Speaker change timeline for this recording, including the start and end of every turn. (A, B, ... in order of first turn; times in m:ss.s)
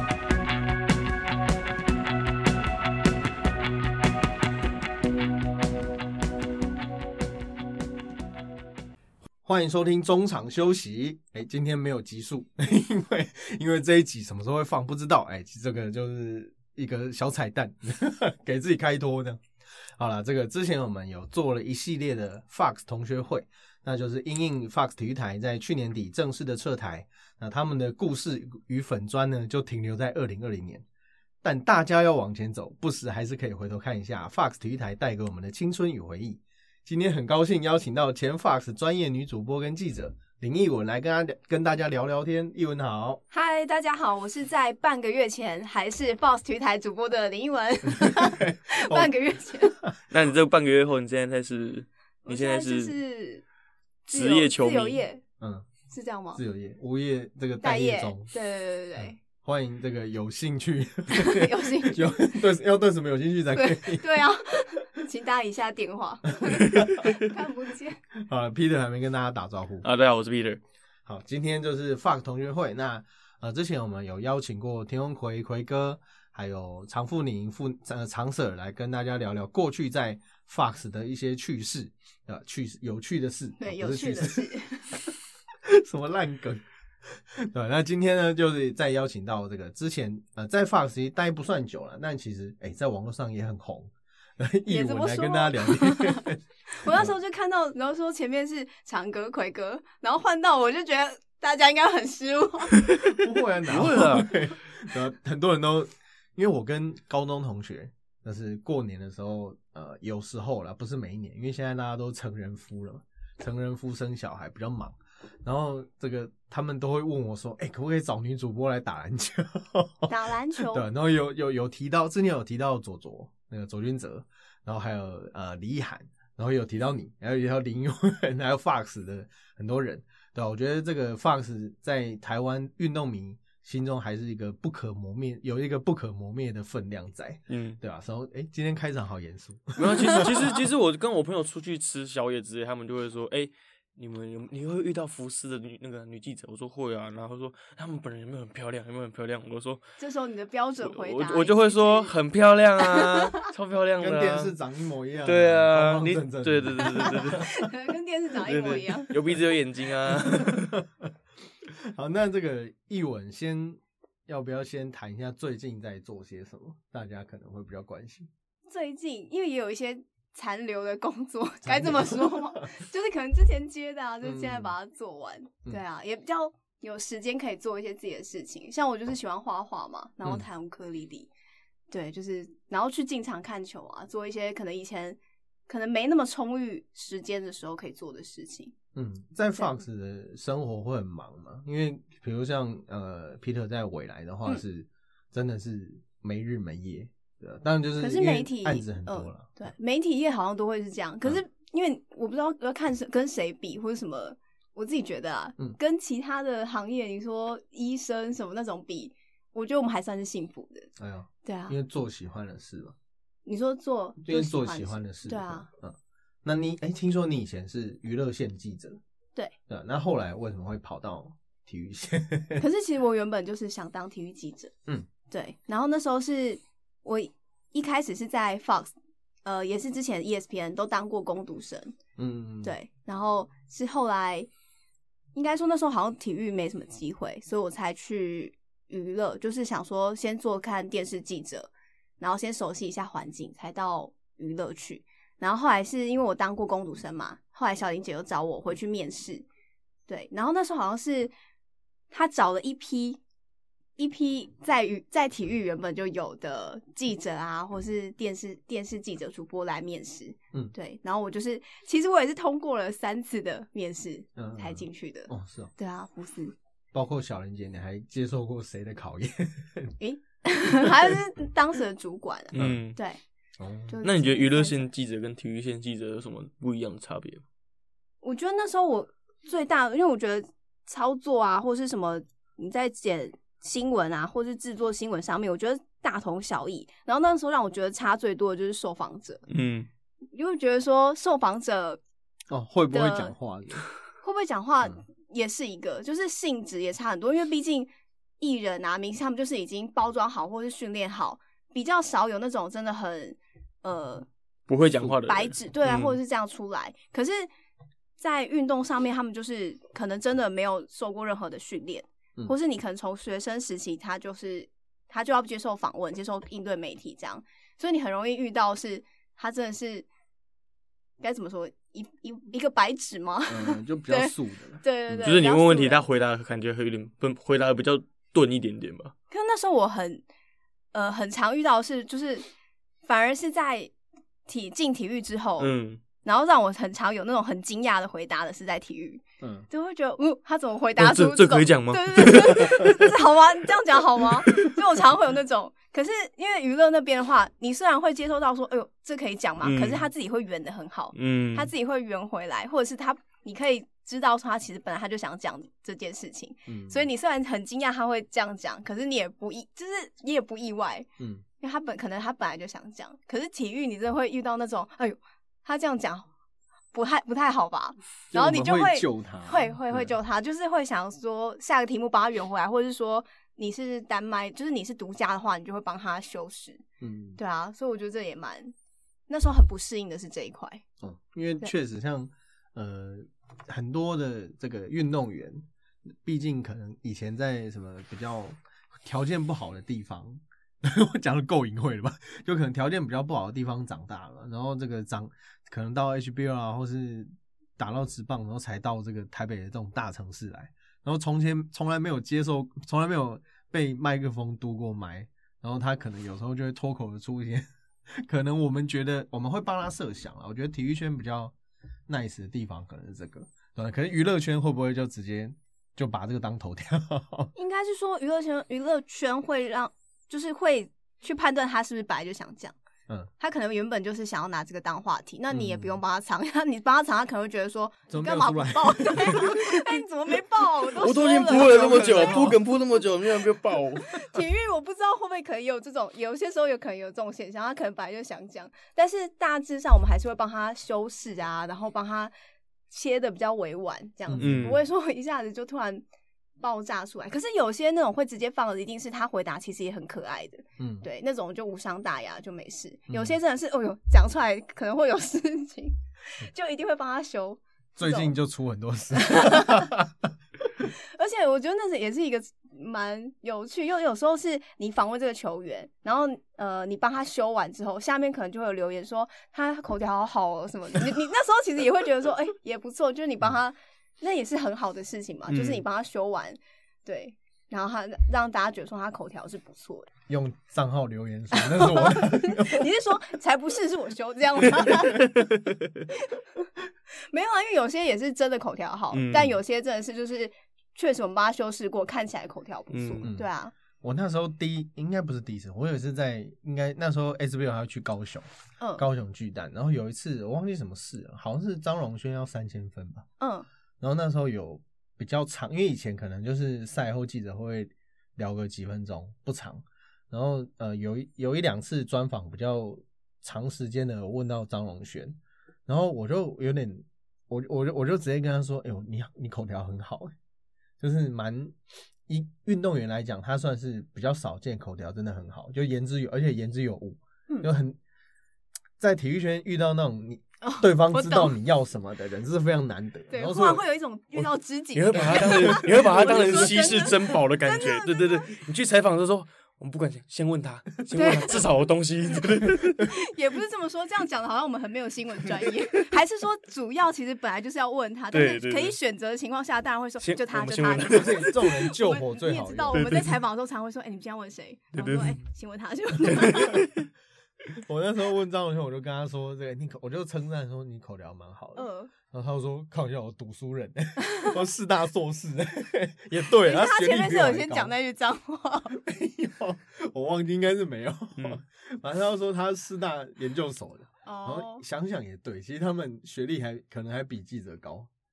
0:09.4-0:19.4 A
0:20.0-0:30.8 A
0:31.4-0:43.2 A
0:43.3-0:49.8 B
0:47.9-0:50.0 A
0:50.1-0:52.9 C
0:52.2-0:53.4 B
0:54.1-0:55.2 B
0:54.1-0:55.0 C
0:55.4-0:55.6 A
0:55.9-0:56.4 B
0:56.3-0:58.3 A
0:57.6-0:59.2 B
0:59.0-1:04.2 A
1:01.1-1:02.1 B
1:03.5-1:08.0 B
1:06.4-1:07.2 A
1:08.1-1:09.9 A
1:09.8-1:10.6 C
1:11.0-1:24.5 A
1:23.6-1:25.1 B
1:25.6-1:37.1 A
1:34.7-1:42.9 B
1:43.0-2:20.5 A
1:43.7-1:44.3 C
2:00.1-2:00.8 B
2:17.5-2:17.8 C
2:19.8-2:29.8 C
2:30.0-2:32.1 B
2:30.8-2:34.5 C
2:32.8-2:33.2 B
2:34.0-2:37.6 A
2:35.2-2:37.5 C
2:36.8-2:39.4 B
2:38.4-2:40.7 C
2:40.1-2:41.1 A
2:41.6-2:48.3 A
2:48.7-3:01.3 B
2:51.6-2:52.7 A
2:54.2-2:54.7 A
3:01.9-3:08.7 B
3:08.9-3:19.5 A
3:18.0-3:30.9 B
3:31.0-3:32.9 A
3:31.4-3:31.8 B
3:33.4-3:35.7 B
3:34.2-3:39.0 A
3:39.7-3:42.6 A
3:42.6-3:44.7 B
3:45.3-3:48.9 B
3:49.4-3:51.9 B
3:52.2-3:52.7 A
3:52.6-3:54.5 B
3:55.3-4:09.4 B
4:10.1-4:11.3 B
4:12.1-4:13.2 B
4:14.0-4:26.5 B
4:24.4-4:25.7 A
4:26.9-4:29.9 A
4:30.0-4:33.2 B
4:30.9-4:31.1 A
4:32.5-4:33.0 C
4:32.6-4:32.8 A
4:33.6-4:33.9 A
4:33.9-4:34.8 B
4:34.0-4:37.4 C
4:38.2-4:49.4 B
4:49.5-4:49.9 C
4:50.3-4:52.0 B
4:52.5-4:53.8 A
4:52.9-4:53.3 B
4:54.2-4:57.9 B
4:58.4-5:04.2 B
5:04.7-5:06.0 C
5:05.2-5:07.5 B
5:08.2-5:20.1 B
5:21.2-5:26.0 B
5:23.5-5:25.3 A
5:25.2-5:29.1 C
5:29.3-5:30.2 B
5:30.9-5:32.4 B
5:33.0-5:33.9 B
5:34.5-6:01.1 B
5:35.6-5:36.0 C
5:39.4-5:39.7 A
5:41.0-5:43.1 C
5:49.6-5:50.0 C
5:51.1-5:51.7 C
5:56.7-5:57.1 A
6:01.2-6:01.4 A
6:01.6-6:06.3 B
6:06.9-6:16.8 B
6:08.3-6:10.1 A
6:17.0-6:17.4 A
6:17.4-6:18.7 B
6:19.3-6:20.8 B
6:21.0-6:25.6 A
6:26.2-6:51.5 A
6:52.1-6:57.5 A
6:57.5-7:02.7 B
7:03.4-7:12.5 B
7:05.5-7:06.0 A
7:08.1-7:09.8 A
7:11.0-7:14.1 C
7:11.4-7:12.6 A
7:14.0-7:22.3 B
7:22.9-7:26.0 B
7:24.3-7:24.7 A
7:24.4-7:24.8 C
7:26.6-7:38.3 B
7:30.8-7:31.0 A
7:33.1-7:33.4 A
7:38.0-7:40.8 A
7:39.1-7:39.9 B
7:40.8-8:00.1 B
7:55.5-7:55.8 C
8:00.3-8:02.8 A
8:01.5-8:05.3 B
8:05.1-8:05.9 C
8:06.2-8:06.7 B
8:07.3-8:13.7 B
8:09.1-8:09.5 C
8:12.9-8:13.3 C
8:13.2-8:13.5 A
8:14.0-8:18.5 A
8:18.8-8:19.0 B
8:19.0-8:23.2 A
8:23.4-8:23.7 B
8:24.0-8:40.3 A
8:41.0-8:41.7 A
8:42.3-8:48.0 A
8:49.0-8:53.8 A
8:50.6-8:51.5 B
8:53.3-8:58.5 B
8:54.9-9:03.1 C
8:55.2-8:55.8 A
9:01.1-9:01.6 B
9:03.0-9:16.8 B
9:08.3-9:09.0 C
9:10.2-9:11.6 C
9:11.0-9:13.2 A
9:12.9-9:13.3 C
9:14.9-9:15.4 C
9:16.4-9:17.1 C
9:17.8-9:27.9 A
9:21.8-9:22.1 B
9:24.2-9:24.5 B
9:26.6-9:28.9 B
9:28.9-9:38.1 A
9:34.2-9:34.8 B